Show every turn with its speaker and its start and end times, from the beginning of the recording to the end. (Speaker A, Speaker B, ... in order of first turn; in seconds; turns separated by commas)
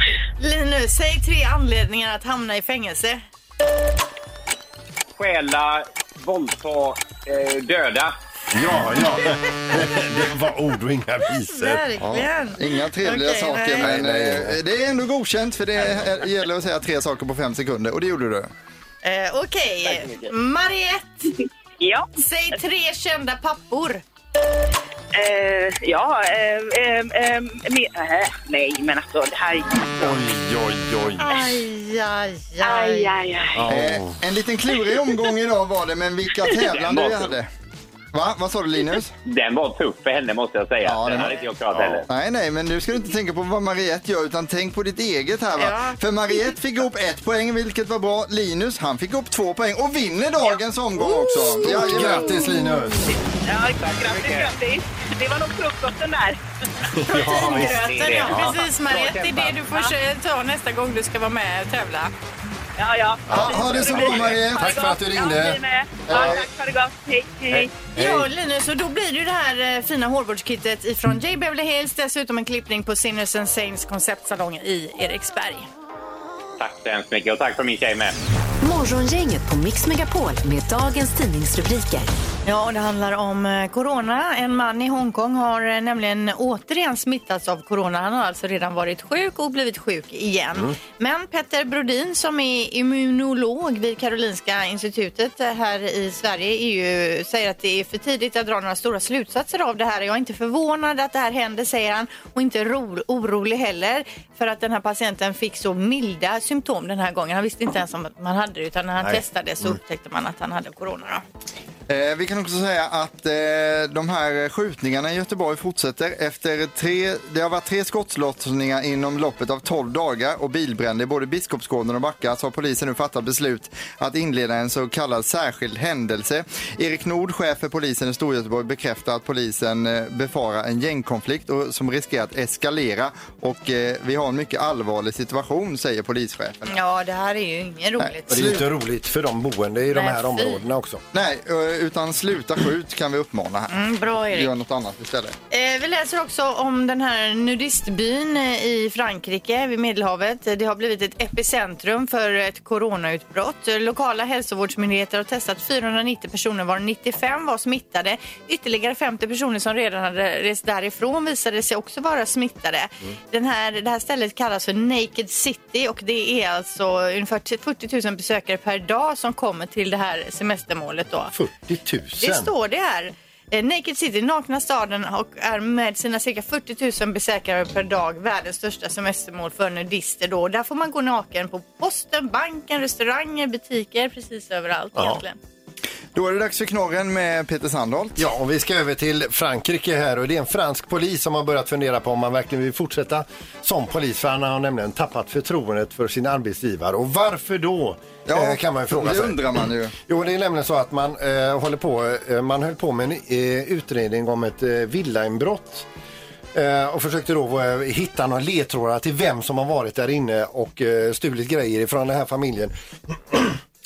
Speaker A: 0.4-3.2, Speaker B: 5.2-8.2, Speaker C: 8.5-11.8, Speaker A: 11.5-13.9, Speaker D: 12.0-18.5, Speaker C: 13.8-14.6, Speaker A: 19.0-21.3, Speaker E: 21.8-22.1, Speaker A: 22.2-24.0, Speaker E: 25.1-30.1, Speaker C: 30.0-31.4, Speaker A: 31.2-33.2, Speaker E: 32.6-33.6, Speaker C: 33.6-34.2, Speaker D: 33.7-37.5, Speaker B: 36.7-37.3, Speaker D: 38.1-39.1, Speaker B: 39.3-42.1, Speaker D: 40.8-41.4, Speaker C: 41.7-42.0, Speaker D: 42.1-52.4, Speaker A: 45.6-46.0, Speaker A: 51.2-51.5, Speaker C: 51.5-53.1, Speaker E: 53.5-56.4, Speaker B: 53.8-54.5, Speaker C: 56.9-57.9, Speaker A: 57.1-62.1, Speaker B: 57.4-59.6, Speaker E: 59.7-59.9, Speaker E: 62.8-67.8, Speaker C: 63.3-66.4, Speaker D: 63.3-64.8, Speaker D: 66.1-66.4, Speaker C: 67.5-68.3, Speaker A: 67.9-75.7, Speaker B: 76.6-78.2, Speaker F: 78.6-82.1, Speaker A: 82.5-111.2, Speaker D: 111.9-136.8, Speaker A: 136.7-138.6, Speaker D: 138.0-138.7, Speaker C: 138.3-141.0, Speaker A: 139.9-140.6, Speaker D: 141.1-145.4, Speaker A: 143.7-144.5, Speaker A: 145.5-171.3, Speaker C: 171.3-172.5, Speaker A: 172.2-185.4, Speaker C: 185.0-185.2, Speaker D: 186.2-188.3, Speaker C: 188.2-205.9, Speaker D: 198.3-199.9, Speaker C: 206.5-213.6